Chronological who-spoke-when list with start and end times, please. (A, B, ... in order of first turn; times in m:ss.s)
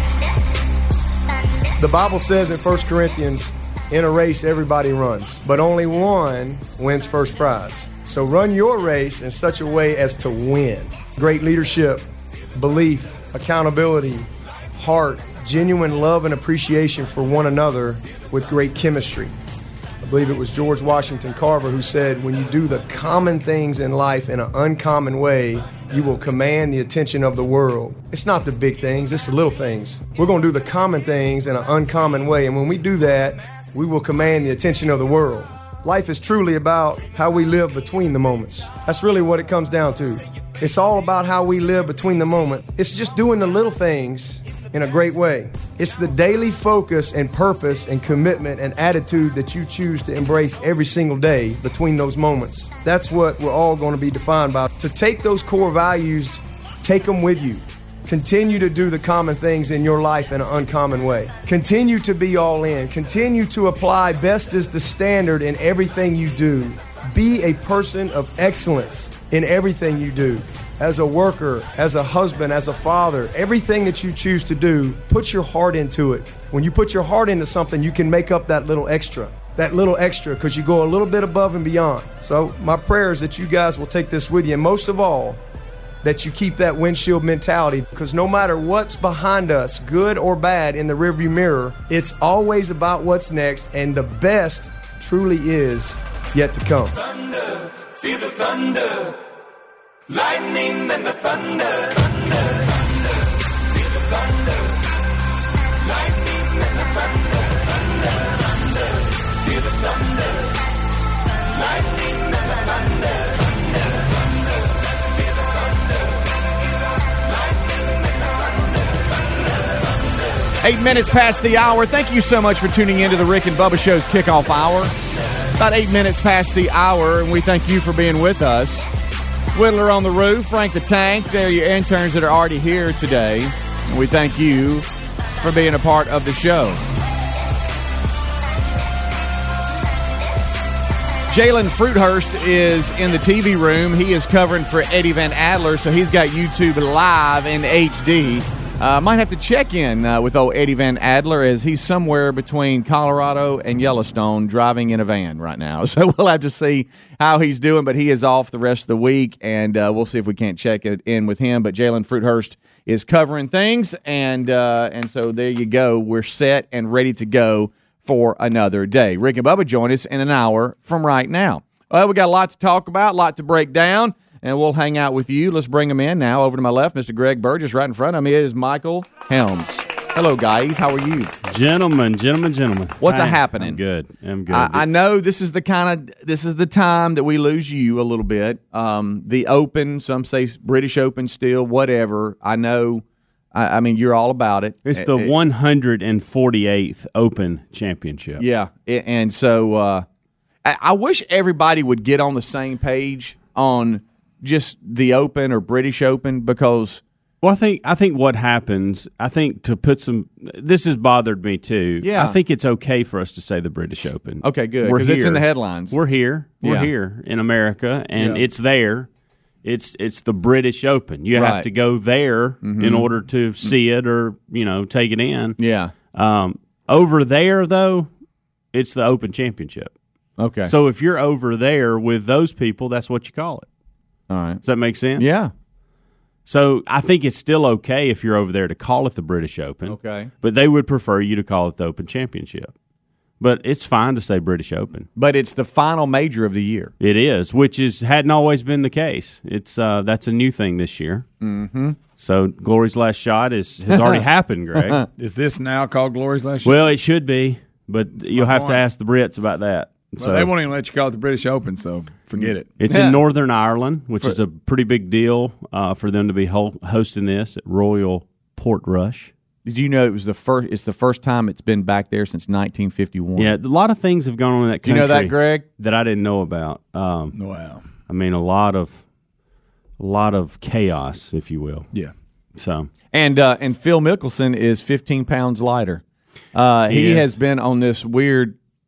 0:01.8-0:19.3 A
0:20.0-1:25.4 A
1:26.0-1:37.0 A
1:37.0-1:39.2 B
1:40.1-1:42.9 B
1:43.7-1:44.8 B
1:45.8-1:50.5 B
1:51.5-1:53.9 B
1:55.3-1:56.0 B
1:57.1-1:59.0 B
2:00.6-2:04.9 C
2:05.6-2:08.9 C
2:09.5-2:14.9 C
2:15.4-2:16.8 C
2:21.3-3:01.3 C
3:01.4-3:04.9 D
3:03.0-3:03.8 C
3:04.5-3:15.3 C
3:14.9-3:18.4 D
3:18.4-3:20.1 C
3:20.6-3:27.0 C
3:27.4-3:39.1 D
3:32.0-3:32.4 C
3:34.4-3:36.0 C
3:36.6-3:36.9 C
3:38.2-3:38.4 E
3:39.6-3:45.6 D
3:41.3-3:41.7 C
3:42.6-3:43.1 C
3:45.6-3:45.9 C
3:46.1-3:48.1 D
3:48.7-3:49.9 D
3:50.4-3:50.7 C
3:50.7-3:53.7 D
3:54.3-3:54.6 C
3:54.6-3:55.4 D
3:55.2-3:55.5 C
3:56.5-4:02.7 D
3:59.9-4:00.3 C
4:03.4-4:05.1 D
4:05.2-4:06.9 C
4:07.0-4:11.2 D
4:11.4-4:12.0 C
4:12.2-4:15.0 D
4:13.9-4:14.2 C
4:14.8-4:15.0 C
4:15.2-4:16.8 E
4:16.6-4:20.5 D
4:18.1-4:18.8 E
4:20.2-4:22.7 E
4:22.8-4:29.3 D
4:22.9-4:23.2 C
4:29.6-4:33.5 C
4:33.4-4:37.4 D
4:34.8-4:35.6 C
4:37.4-4:37.8 E
4:38.1-4:39.0 D
4:40.0-4:41.9 D
4:42.6-4:42.9 D
4:43.1-4:46.0 C
4:46.5-4:48.6 C
4:46.9-4:47.3 D